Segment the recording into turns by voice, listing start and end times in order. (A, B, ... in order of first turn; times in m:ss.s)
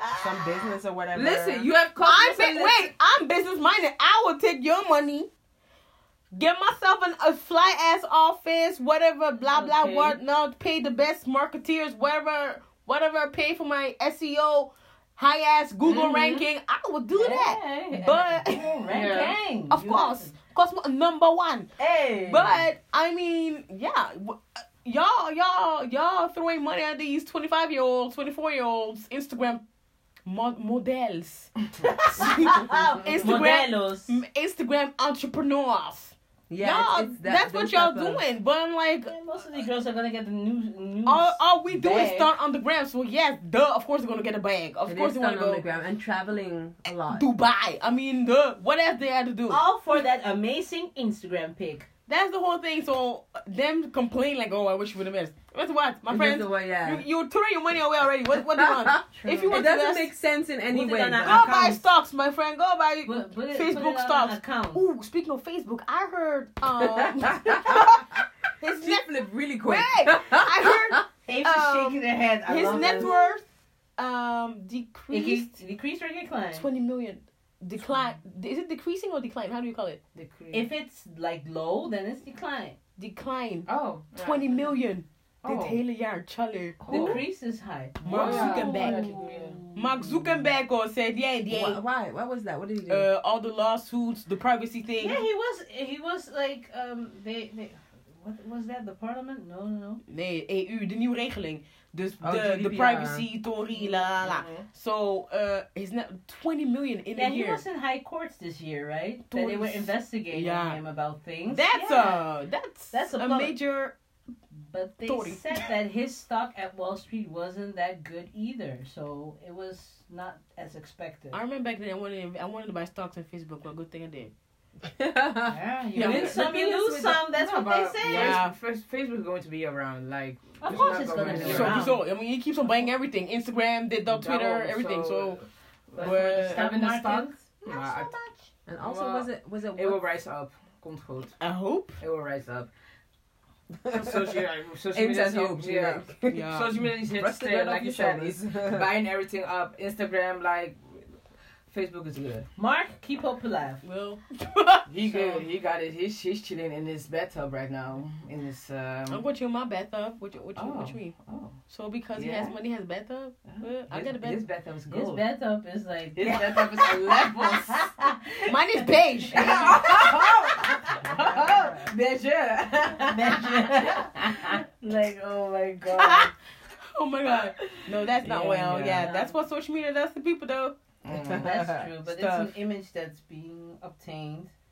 0:00.2-0:01.7 A
0:01.1-0:02.9 B
0:02.0-0:05.3 C
0:06.3-0:18.7 C
0:09.5-0:10.2 D
0:15.8-0:16.4 B
0:17.1-0:20.3 D
0:18.8-0:19.4 B
0:19.7-0:21.7 C
0:21.8-0:22.6 D
0:22.3-0:29.6 C
0:30.2-0:31.6 C
0:31.8-0:34.1 D
0:32.2-0:39.1 C
0:36.5-0:38.2 A
0:39.1-0:42.3 D
0:41.0-0:45.6 C
0:44.8-0:47.2 A
0:47.1-0:49.6 C
0:49.5-0:51.9 D
0:52.1-1:00.1 C
0:56.1-0:57.0 A
0:58.5-1:01.7 A
0:59.1-0:59.7 D
1:00.7-1:01.8 D
1:01.2-1:09.1 C
1:03.0-1:04.9 D
1:06.9-1:08.0 A
1:08.6-1:11.0 A
1:09.6-1:13.4 C
1:11.2-1:13.4 D
1:12.7-1:13.1 A
1:14.0-1:15.6 C
1:15.1-1:16.6 D
1:16.5-1:20.0 C
1:20.2-1:20.7 B
1:20.5-1:22.8 D
1:23.0-1:27.2 C
1:23.6-1:24.8 B
1:25.4-1:25.8 B
1:26.8-1:30.4 D
1:26.8-1:27.2 B
1:28.0-1:29.6 B
1:28.0-1:29.2 C
1:29.7-1:31.8 C
1:31.5-1:33.1 A
1:32.9-1:35.2 C
1:35.0-1:40.0 D
1:40.1-1:47.6 C
1:42.2-1:43.2 A
1:43.7-1:44.0 D
1:44.2-1:44.6 B
1:47.2-1:52.2 D
1:49.3-1:50.8 C
1:51.5-1:53.9 C
1:52.9-1:53.5 D
1:54.5-2:01.4 D
1:55.1-1:55.7 C
2:01.3-2:04.3 C
2:04.9-2:05.6 A
2:05.5-2:08.4 D
2:05.9-2:06.5 C
2:06.0-2:11.9 B
2:08.0-2:08.5 C
2:10.6-2:12.0 D
2:11.2-2:15.4 C
2:14.0-2:18.1 B
2:16.0-2:18.5 D
2:16.0-2:16.6 C
2:18.6-2:20.0 A
2:18.8-2:21.4 B
2:21.4-2:22.0 C
2:22.0-2:22.7 B
2:23.8-2:28.9 A
2:23.9-2:30.8 B
2:26.3-2:26.7 C
2:31.7-2:32.5 B
2:32.6-2:33.8 D
2:33.8-2:35.4 C
2:34.9-2:39.2 B
2:39.1-2:41.2 C
2:40.5-2:41.6 B
2:41.7-2:44.4 C
2:42.1-2:42.6 B
2:43.4-2:45.2 B
2:44.9-2:51.9 D
2:46.2-2:48.1 B
2:48.4-2:49.9 C
2:49.3-2:54.6 B
2:53.0-2:56.3 D
2:55.9-3:00.7 C
2:58.2-2:59.1 B
2:59.0-2:59.4 D
3:01.0-3:01.8 B
3:01.1-3:01.8 A
3:01.3-3:04.5 D
3:02.0-3:02.5 C